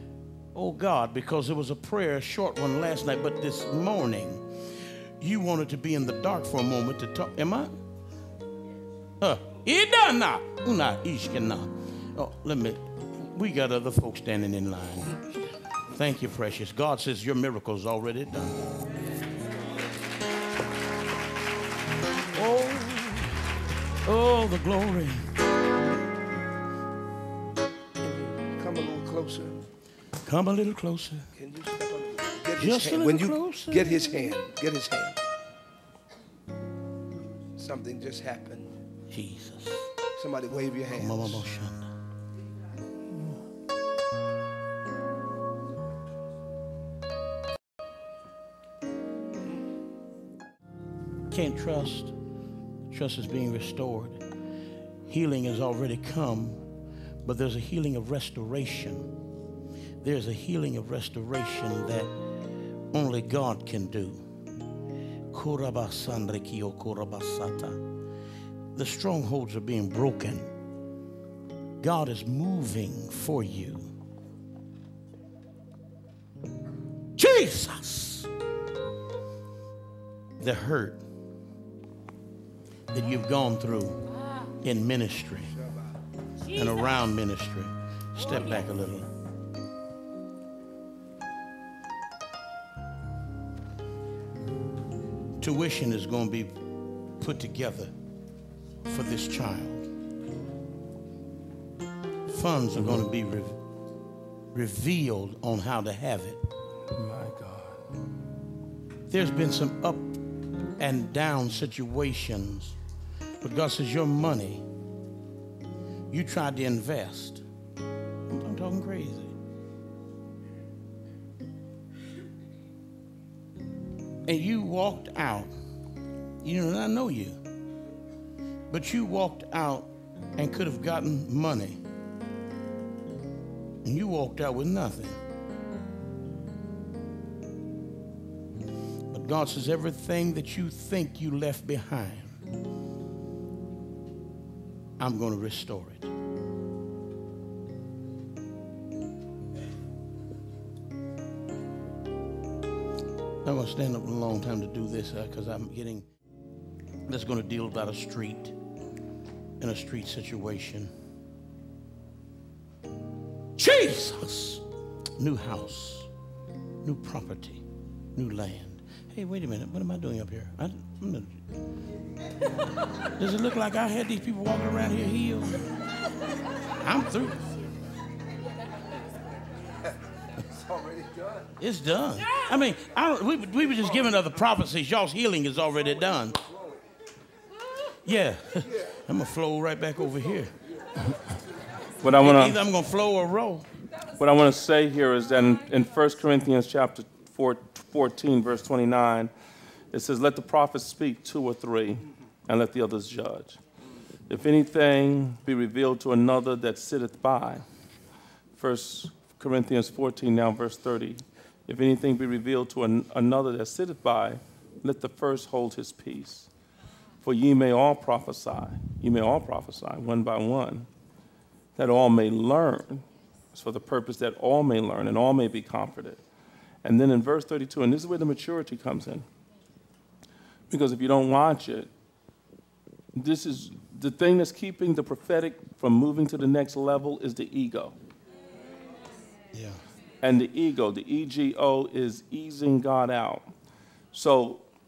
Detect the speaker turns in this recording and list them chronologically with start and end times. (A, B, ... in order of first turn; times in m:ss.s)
0:00.5-0:07.8 A
0:09.2-0:15.2 A
0:15.9-0:18.6 A
0:22.4-0:23.5 A
0:24.0-0:25.3 A
0:28.0-0:29.6 B
0:30.2-0:31.3 A
0:31.4-0:35.2 B
0:32.6-0:34.4 A
0:37.6-0:38.7 B
0:39.1-0:39.9 A
0:40.2-0:41.5 B
0:40.9-0:41.9 A
0:51.3-0:52.2 A
0:52.9-0:54.2 A
0:55.1-0:56.6 A
0:57.2-0:59.1 A
1:00.0-1:02.1 A
1:02.9-1:04.2 A
1:05.3-1:07.8 A
1:08.7-1:10.5 A
1:11.8-1:13.9 A
1:17.2-1:18.3 A
1:20.4-1:21.0 A
1:22.9-1:25.5 A
1:25.5-1:26.0 B
1:26.5-1:29.1 A
1:35.4-1:36.5 A
1:37.2-1:37.9 A
1:38.9-1:39.9 A
1:42.3-1:43.6 A
1:42.8-1:43.0 C
1:44.5-1:46.4 A
1:47.0-1:47.8 C
1:49.1-1:50.2 A
1:50.8-1:52.8 A
1:53.4-1:54.6 A
1:56.1-1:57.4 A
1:58.3-1:59.4 A
2:04.3-2:05.5 A
2:06.4-2:07.4 A
2:08.7-2:11.8 A
2:13.8-2:15.2 A
2:19.1-2:22.4 A
2:25.0-2:26.1 A
2:33.4-2:36.1 A
2:37.1-2:38.6 A
2:39.6-2:40.9 A
2:43.6-2:44.6 A
2:45.2-2:46.1 A
2:46.8-2:51.4 A
2:53.0-2:55.7 A
2:56.8-2:57.5 A
3:00.4-3:01.5 B
3:01.6-3:06.4 A
3:08.0-3:10.5 A
3:12.0-3:12.6 C
3:12.2-3:13.7 A
3:14.2-3:19.3 C
3:19.9-3:23.6 C
3:24.3-3:27.6 C
3:28.6-3:36.5 C
3:37.2-3:40.9 C
3:41.8-3:46.2 C
3:46.8-3:49.3 C
3:50.7-3:51.9 C
3:53.2-3:58.0 C
3:59.5-3:59.8 A
4:00.2-4:03.5 C
4:04.1-4:04.6 C